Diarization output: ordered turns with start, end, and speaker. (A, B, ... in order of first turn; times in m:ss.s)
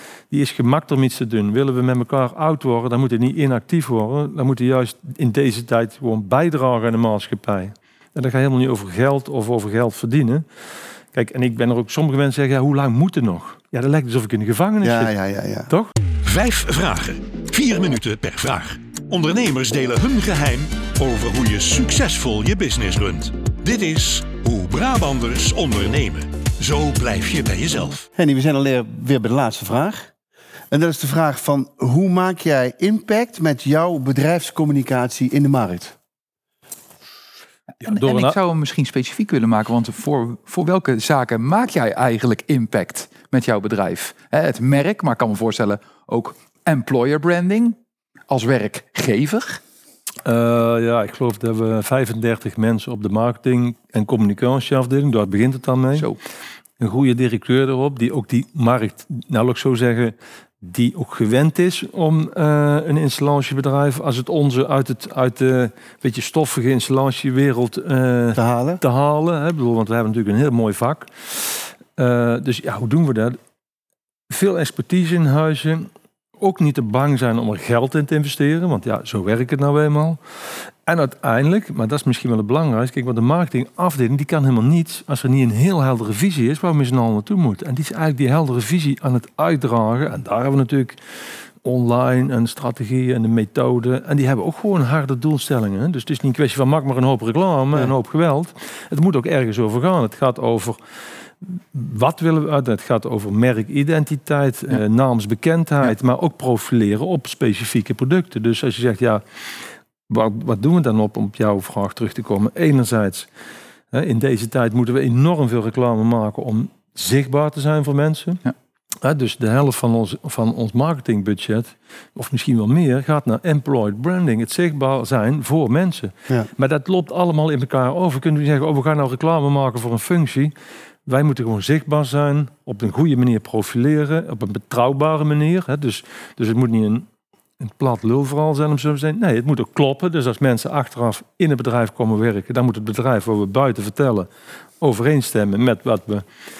0:00.3-0:10.4 A
0:11.1-0:15.1 A
0:14.8-0:15.7 B
0:16.2-0:28.0 C
0:28.2-0:30.1 B
0:30.7-0:36.0 B
0:37.8-0:38.4 A
0:37.8-0:47.8 D
0:48.3-0:49.6 D
0:50.2-0:56.1 A
0:56.8-1:13.4 A
1:08.3-1:08.8 B
1:14.3-1:20.2 A
1:20.8-1:31.0 A
1:31.6-1:40.8 A
1:41.4-1:49.2 A
1:50.1-1:53.3 A
1:53.9-1:58.4 A
1:59.0-2:10.5 A
2:11.0-2:17.1 A
2:17.6-2:24.3 A
2:24.8-2:26.2 A